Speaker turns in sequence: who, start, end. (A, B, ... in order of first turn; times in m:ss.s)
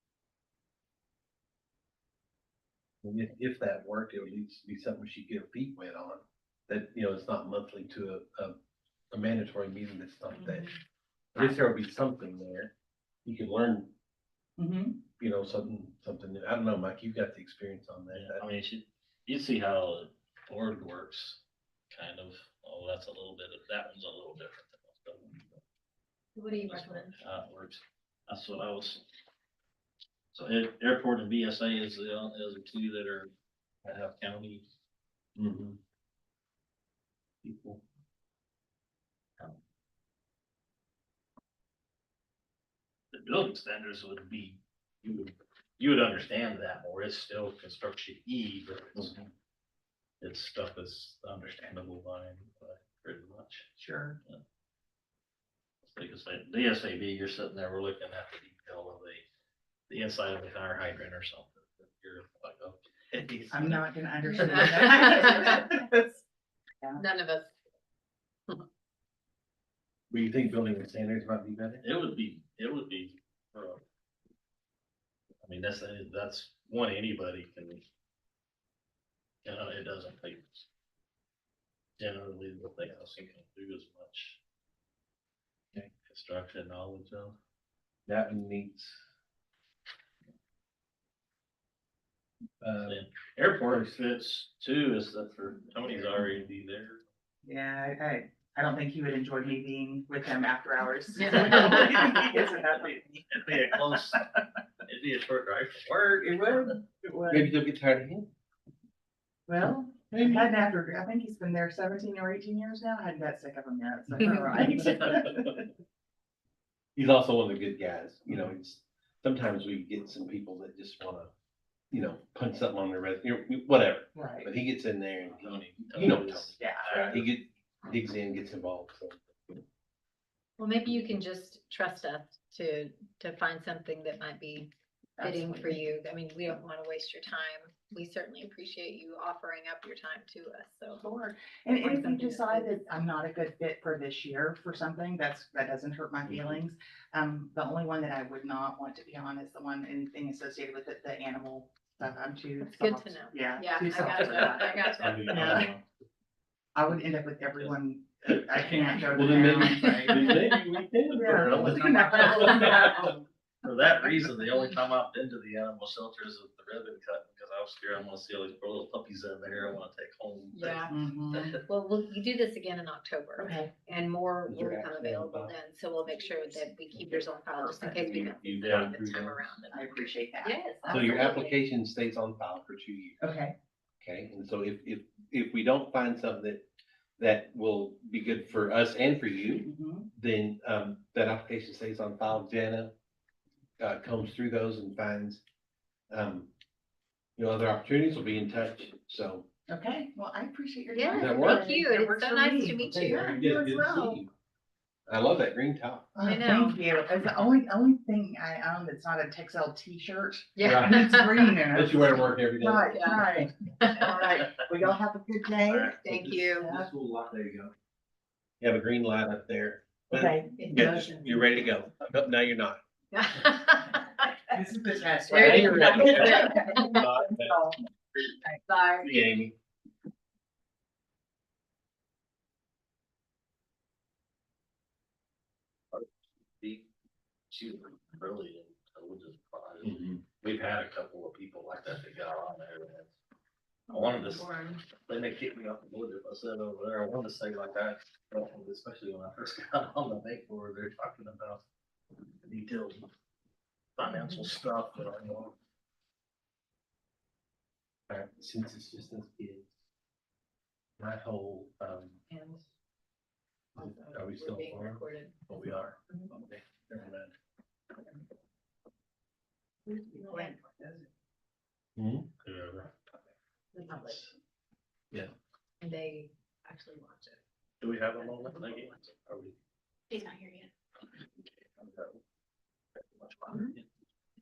0:03.0-0:08.6 A
0:09.1-0:10.7 A
0:11.3-0:12.7 A
0:13.2-0:13.9 A
0:14.6-0:15.0 B
0:15.2-0:18.4 A
0:18.1-0:25.6 C
0:26.4-0:27.1 D
0:26.6-0:29.0 C
0:30.3-0:33.3 C
0:33.8-0:34.6 C
0:35.4-0:35.8 A
0:37.4-0:37.8 C
0:43.1-0:49.1 C
0:50.2-0:53.7 C
0:53.8-0:54.2 B
0:55.8-0:59.2 C
0:59.9-1:02.8 C
1:03.1-1:03.8 A
1:03.4-1:03.8 C
1:03.5-1:06.2 B
1:04.2-1:05.6 D
1:07.0-1:07.5 D
1:10.1-1:11.8 A
1:11.8-1:13.8 C
1:15.4-1:17.8 C
1:19.4-1:20.6 C
1:22.0-1:24.4 C
1:25.9-1:27.4 C
1:28.0-1:29.0 A
1:32.6-1:33.0 A
1:32.8-1:37.0 C
1:37.4-1:44.2 B
1:41.2-1:42.2 D
1:41.5-1:42.1 C
1:43.3-1:44.2 C
1:44.8-1:46.8 C
1:46.1-1:47.5 B
1:47.3-1:48.3 A
1:49.5-1:55.6 B
1:50.1-1:50.5 A
1:54.1-1:55.0 D
1:54.7-1:55.1 A
1:57.0-2:01.3 A
2:01.9-2:09.6 A
2:04.1-2:04.5 B
2:05.2-2:07.3 C
2:06.6-2:07.2 B
2:10.6-2:21.0 D
2:15.2-2:15.9 B
2:21.0-2:35.7 B
2:21.8-2:22.7 D
2:32.7-2:35.4 D
2:35.0-2:35.8 C
2:35.0-2:35.8 A
2:36.7-2:40.5 B
2:38.9-2:40.6 D
2:39.1-2:43.1 A
2:41.1-2:43.2 B
2:41.3-2:42.5 C
2:42.2-2:42.9 D
2:43.6-2:51.6 C
2:50.5-2:50.9 D
2:50.9-2:51.6 B
2:51.6-3:01.6 D
2:53.4-2:53.7 B
2:54.4-2:55.5 A
2:57.8-2:59.5 A
2:58.6-2:58.9 C
2:59.7-3:01.3 B
3:00.9-3:03.2 A
3:03.2-3:03.5 B
3:04.0-3:06.6 A
3:07.2-3:12.9 A
3:09.6-3:10.1 B
3:13.8-3:15.4 A
3:16.1-3:16.5 A
3:17.4-3:19.4 A
3:19.7-3:24.2 B
3:20.9-3:23.3 D
3:21.1-3:21.7 A
3:22.8-3:24.3 A
3:25.1-3:26.1 A
3:26.1-3:36.0 B
3:26.2-3:26.8 D
3:30.6-3:31.5 D
3:30.6-3:31.2 A
3:31.7-3:33.2 A
3:32.9-3:34.3 D
3:35.7-3:37.7 A
3:35.7-3:36.7 D
3:36.6-3:36.9 B
3:38.6-3:42.8 A
3:40.1-3:40.6 B
3:40.6-3:41.6 D
3:43.1-3:44.3 D
3:44.5-3:47.8 B
3:45.3-3:47.0 D
3:45.3-3:47.6 A
3:48.6-3:49.1 D
3:49.0-3:49.5 A
3:56.6-3:56.8 C
3:57.5-4:03.2 C
3:59.8-4:00.2 A
4:03.9-4:11.6 C
4:03.9-4:04.8 D
4:12.4-4:13.1 C
4:14.0-4:15.6 C
4:18.1-4:19.7 A
4:21.0-4:22.2 A
4:22.3-4:22.6 D
4:23.7-4:26.3 D
4:23.8-4:27.3 A
4:29.9-4:30.9 D
4:32.0-4:32.3 A
4:32.4-4:32.9 C
4:33.7-4:34.2 D
4:35.8-4:37.4 D
4:37.8-4:39.5 C
4:38.1-4:39.0 D
4:40.1-4:40.6 D
4:41.8-4:42.2 C
4:43.0-4:43.8 C